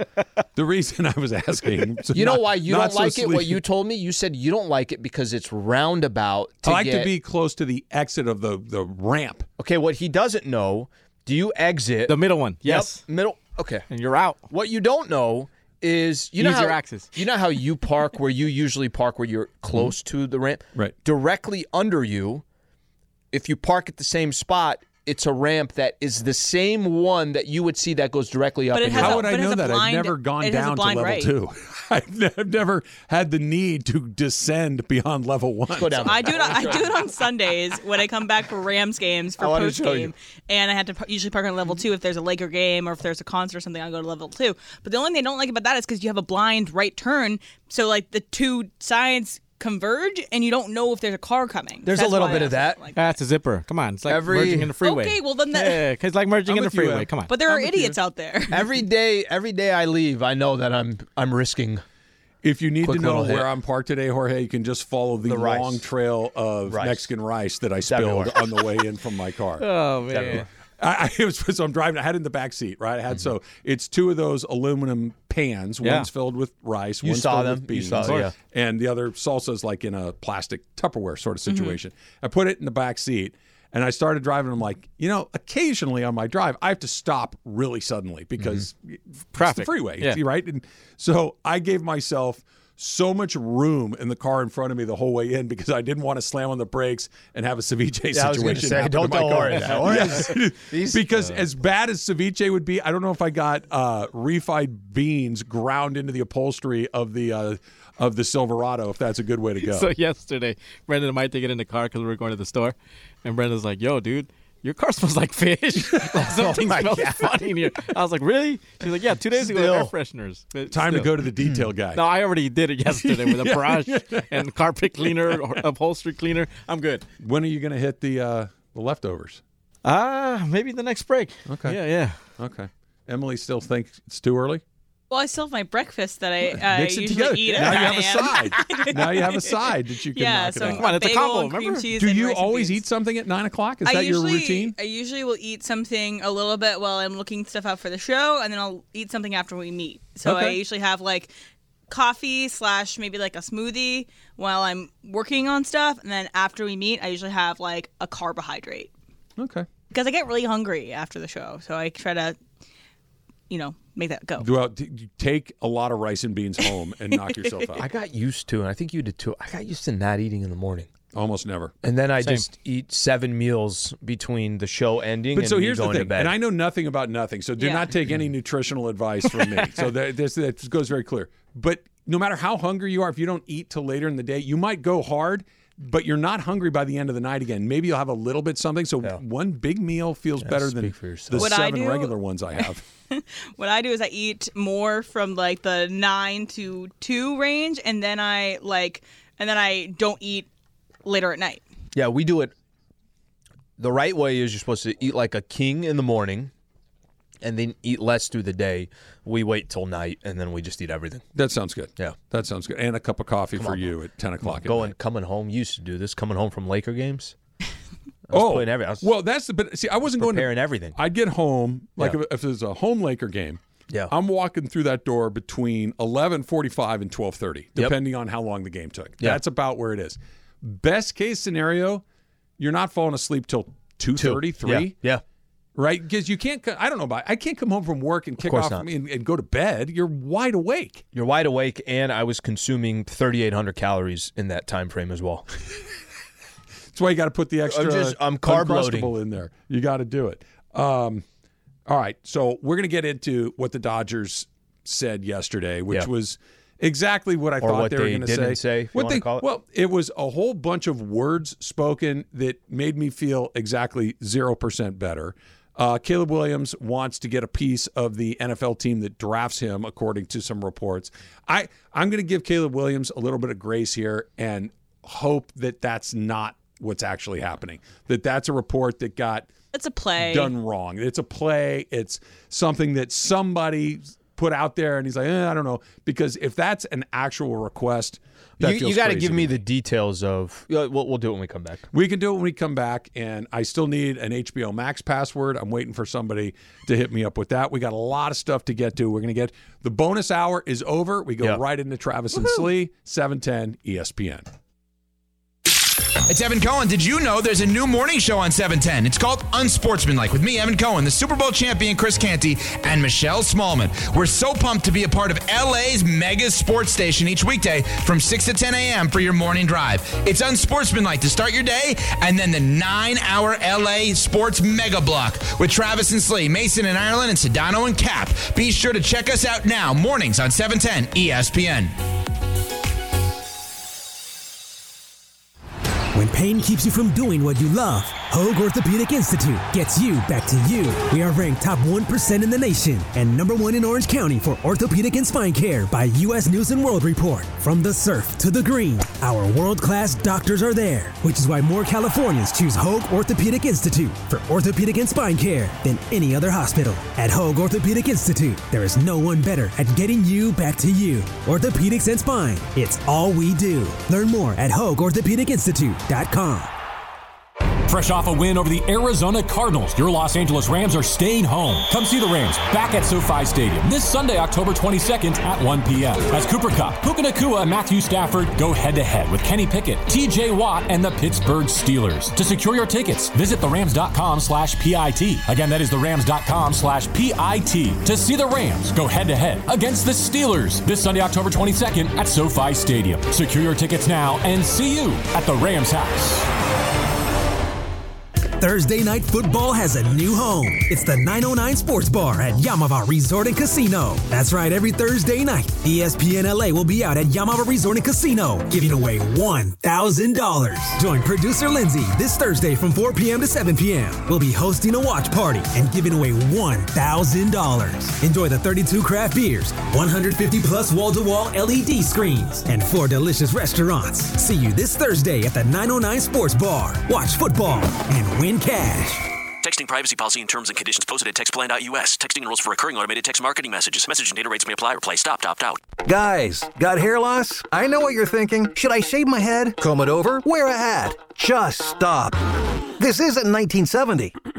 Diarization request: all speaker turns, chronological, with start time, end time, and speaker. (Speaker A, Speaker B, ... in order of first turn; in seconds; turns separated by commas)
Speaker A: 0.6-3.6, Speaker B: 2.1-7.1, Speaker A: 6.6-9.5, Speaker B: 9.6-13.9, Speaker C: 12.1-13.0, Speaker C: 13.9-14.4, Speaker B: 14.5-22.4, Speaker C: 16.4-17.1, Speaker B: 23.3-29.3, Speaker D: 28.7-31.3, Speaker A: 28.9-36.1, Speaker B: 35.8-37.1, Speaker D: 35.9-53.1, Speaker B: 39.4-40.1, Speaker B: 51.9-52.9, Speaker C: 53.0-57.3, Speaker B: 54.1-54.7, Speaker D: 54.8-55.8, Speaker A: 56.5-58.0, Speaker D: 57.3-58.6, Speaker B: 58.5-61.8, Speaker A: 62.4-69.7, Speaker B: 62.8-63.5, Speaker B: 65.2-65.8, Speaker B: 66.7-67.1, Speaker B: 67.8-68.5, Speaker C: 69.6-70.5, Speaker B: 70.1-70.5, Speaker A: 70.3-109.9, Speaker C: 75.8-76.1, Speaker B: 77.0-78.3, Speaker C: 77.9-78.3, Speaker D: 81.5-81.8, Speaker C: 89.4-90.2, Speaker B: 98.1-101.5, Speaker C: 109.6-121.2, Speaker B: 116.3-117.3, Speaker A: 116.4-116.8, Speaker B: 119.3-119.9, Speaker A: 120.7-122.0, Speaker C: 121.9-127.0, Speaker A: 123.0-124.4, Speaker A: 127.2-129.4, Speaker C: 129.8-132.2, Speaker A: 131.5-131.8, Speaker A: 132.4-134.6, Speaker D: 135.1-142.8, Speaker A: 136.6-140.9, Speaker C: 140.6-141.9, Speaker A: 142.0-144.8, Speaker D: 143.8-151.3, Speaker A: 150.2-150.6, Speaker D: 151.9-158.9, Speaker A: 159.4-159.7, Speaker D: 159.9-162.4, Speaker D: 163.5-164.5, Speaker A: 164.4-167.9, Speaker B: 167.8-170.9, Speaker A: 171.1-171.7, Speaker B: 171.8-176.4, Speaker C: 172.2-172.4, Speaker A: 175.3-192.8, Speaker D: 177.6-177.9, Speaker B: 190.4-191.5, Speaker D: 191.4-192.2, Speaker D: 193.1-200.5, Speaker D: 201.1-201.6, Speaker B: 201.9-202.5, Speaker B: 203.8-206.5, Speaker B: 207.4-211.2, Speaker A: 211.3-214.9, Speaker B: 213.6-217.3, Speaker B: 218.3-219.1, Speaker A: 218.3-232.0, Speaker B: 220.1-221.0, Speaker A: 232.6-234.9, Speaker B: 234.2-235.2, Speaker A: 235.8-241.0, Speaker B: 238.4-238.9, Speaker B: 241.1-245.5, Speaker A: 246.9-251.2, Speaker B: 247.7-249.1, Speaker A: 251.9-279.5, Speaker B: 257.6-259.5, Speaker D: 279.7-280.5, Speaker A: 280.2-289.5, Speaker B: 288.6-291.9, Speaker A: 291.9-304.4, Speaker E: 306.3-331.9, Speaker F: 336.1-366.7, Speaker G: 367.9-396.5, Speaker F: 398.6-429.3, Speaker H: 429.6-435.8, Speaker I: 436.0-442.4, Speaker I: 443.0-444.3